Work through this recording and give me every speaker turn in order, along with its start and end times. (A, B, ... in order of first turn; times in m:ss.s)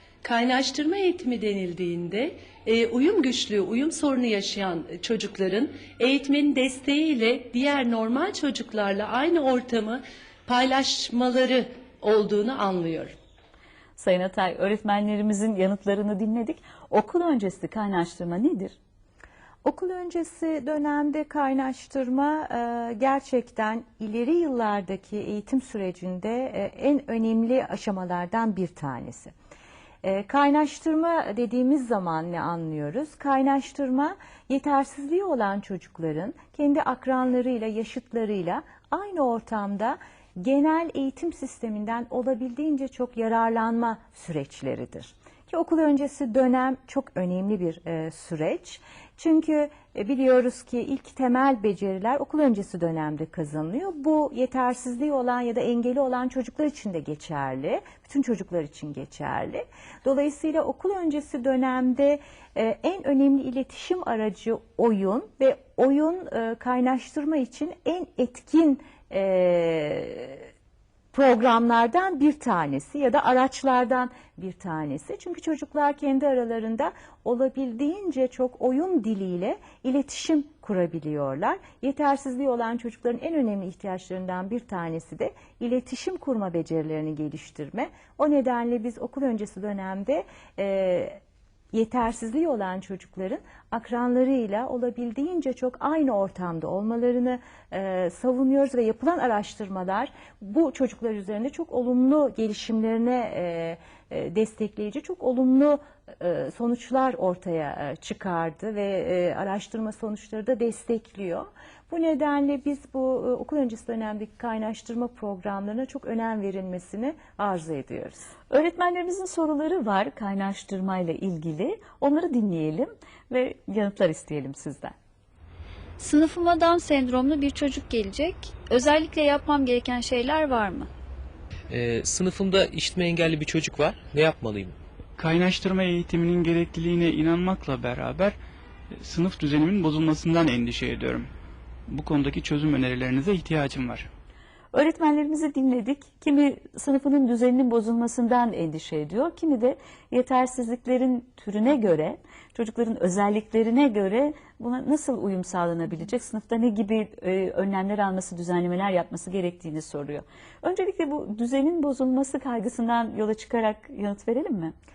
0:00.2-0:13.1 A
0:14.0-0:18.8 B
0:19.6-0:29.3 C
0:30.0-1:10.5 C
1:11.1-1:31.2 C
1:31.7-1:58.3 C
1:58.5-2:04.9 B
2:06.0-2:10.9 D
2:11.7-2:14.8 E
2:15.2-2:18.4 F
2:19.0-2:21.3 F
2:21.9-2:24.1 F
2:24.7-2:44.7 B